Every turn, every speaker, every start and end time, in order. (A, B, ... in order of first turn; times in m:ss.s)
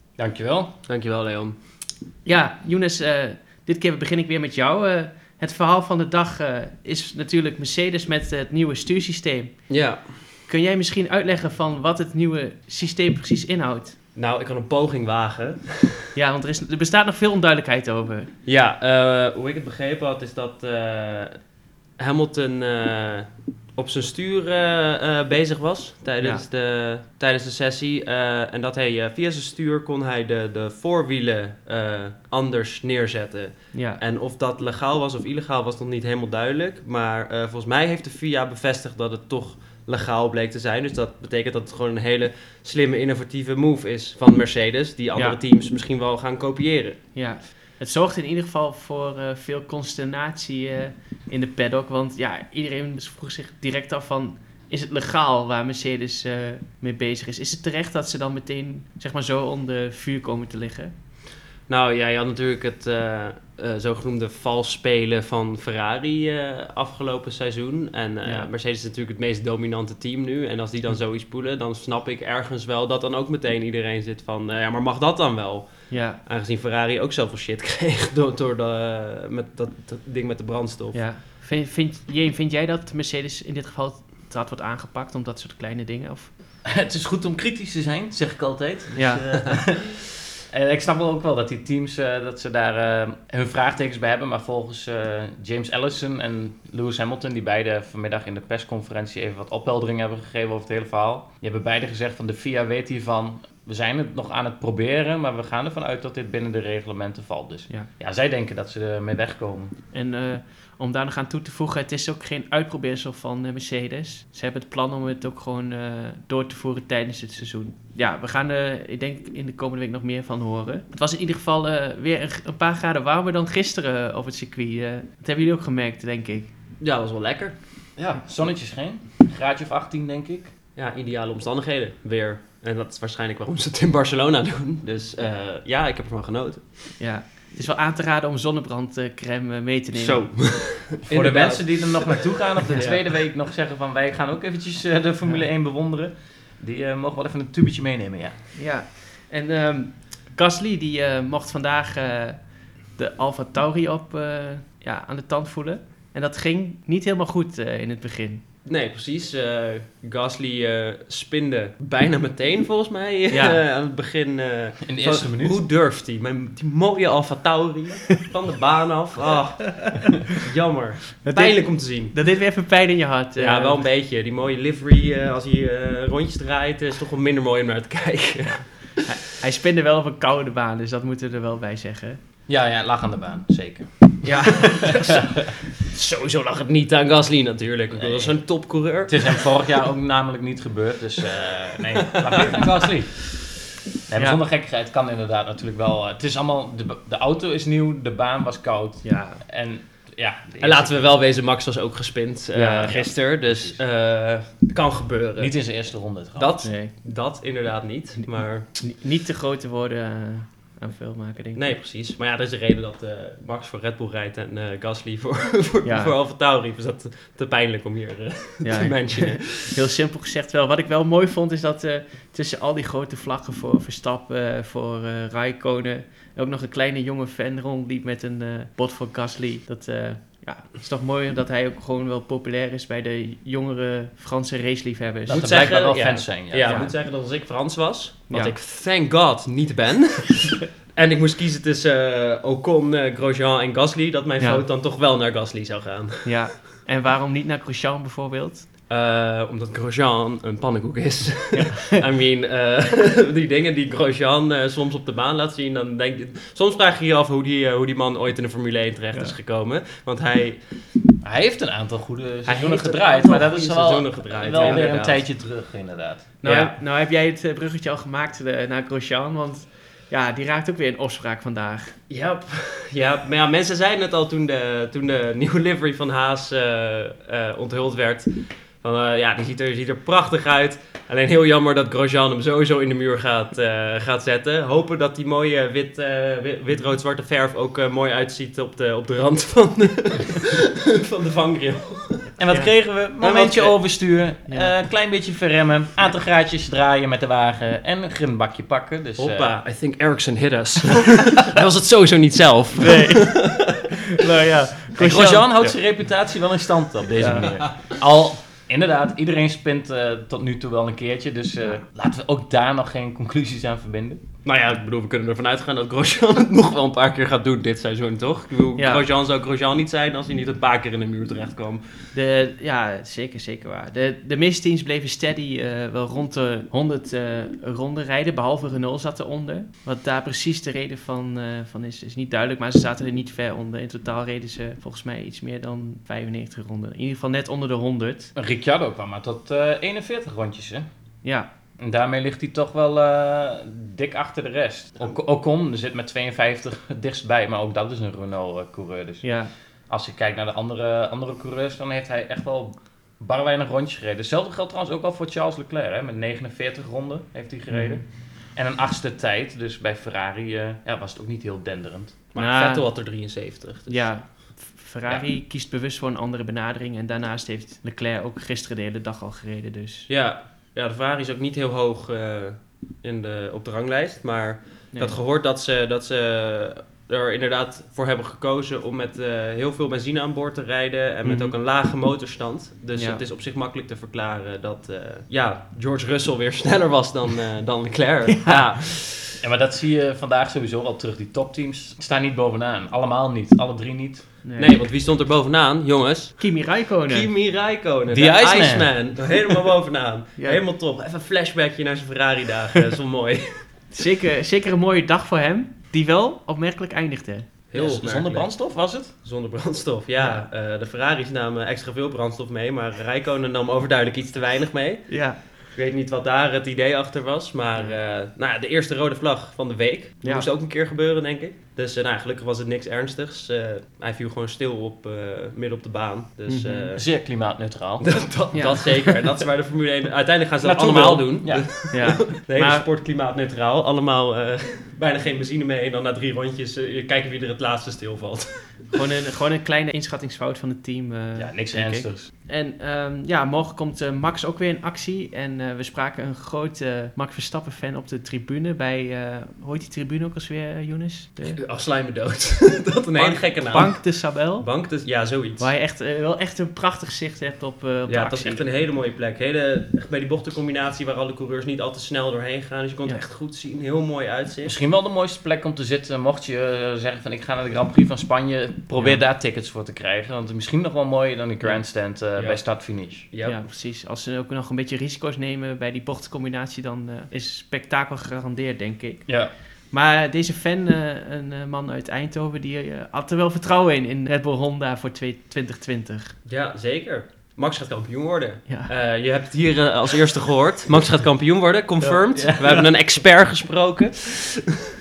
0:00.2-0:00.7 A
0:00.9-0:01.6 B
0:02.2-0:09.6 C
0:09.7-0:10.2 B
0:10.5-0:14.0 C
0:14.2-0:16.1 B
0:16.1-0:18.3 C
0:18.4-0:21.4 B
0:22.0-0:47.0 B
0:26.2-0:26.4 C
0:33.7-0:34.0 C
0:47.1-1:00.9 C
1:01.7-1:21.1 B
1:15.9-1:16.2 C
1:20.9-1:26.3 C
1:26.6-1:49.7 A
1:28.9-1:29.2 C
1:49.9-2:06.5 C
2:06.8-2:07.6 B
2:08.0-2:10.5 A
2:10.8-2:16.6 B
2:17.0-2:20.3 C
2:19.9-2:23.1 B
2:21.1-2:28.4 A
2:28.5-2:38.4 C
2:38.6-2:52.2 B
2:43.3-2:43.6 C
2:44.8-2:45.6 A
2:51.2-2:53.8 C
2:53.4-2:59.0 B
2:58.4-3:02.2 C
3:02.5-3:05.1 A
3:04.2-3:05.2 C
3:05.9-3:09.4 B
3:07.9-3:08.4 A
3:09.0-3:13.3 A
3:12.0-3:12.6 B
3:14.1-3:21.2 A
3:19.0-3:19.4 C
3:20.6-3:25.8 B
3:22.5-3:23.1 C
3:23.0-3:23.8 A
3:25.4-3:26.6 A
3:26.4-3:28.7 B
3:26.6-3:26.9 C
3:28.3-3:31.7 C
3:31.5-3:39.8 B
3:35.8-3:36.1 C
3:38.6-3:55.4 C
3:55.3-4:06.3 B
3:55.3-3:56.8 A
3:56.6-3:56.9 C
3:58.3-3:58.5 C
4:04.4-4:04.6 C
4:06.2-4:08.7 C
4:08.9-4:20.6 B
4:11.5-4:12.0 C
4:21.2-4:26.2 A
4:22.4-4:25.3 B
4:24.6-4:24.9 C
4:26.4-4:31.9 C
4:26.4-4:26.7 B
4:32.1-4:52.3 B
4:52.4-4:59.5 A
4:53.2-4:54.1 B
4:54.4-4:54.7 C
4:59.2-5:03.7 B
5:02.8-5:05.6 C
5:05.0-5:14.2 A
5:07.2-5:07.6 C
5:14.4-5:21.8 B
5:18.8-5:19.0 C
5:22.1-5:38.3 C
5:38.3-5:40.8 A
5:41.2-5:41.5 C
5:41.8-5:49.2 A
5:49.2-5:49.5 C
5:49.9-5:58.0 A
5:57.7-5:58.0 C
5:58.6-6:02.1 A
6:02.3-6:04.3 B
6:02.4-6:02.9 C
6:03.9-6:10.1 C
6:10.1-6:29.4 B
6:14.9-6:15.2 C
6:21.2-6:21.5 C
6:23.0-6:23.2 C
6:29.4-6:34.2 A
6:34.4-6:34.8 C
6:34.6-6:43.6 B
6:36.4-6:37.3 C
6:38.1-6:38.9 A
6:43.9-6:47.5 C
6:47.7-7:07.0 B
6:47.7-6:49.1 A
6:50.2-6:50.5 C
6:55.1-6:55.4 C
7:00.2-7:00.5 C
7:06.5-7:06.9 C
7:07.0-7:08.2 A
7:08.0-7:18.5 B
7:08.5-7:09.4 C
7:10.6-7:11.4 C
7:11.4-7:11.7 A
7:11.9-7:12.9 C
7:18.9-7:31.6 C
7:21.4-7:22.3 A
7:31.4-7:35.7 B
7:33.1-7:34.7 C
7:35.6-7:38.6 C
7:38.1-7:44.8 B
7:44.6-7:53.3 A
7:49.0-7:49.2 C
7:52.4-7:52.6 B
7:53.2-7:53.6 B
7:53.4-7:59.3 C
7:59.3-7:59.5 A
7:59.9-8:06.3 C
8:06.4-8:14.7 B
8:12.3-8:12.8 A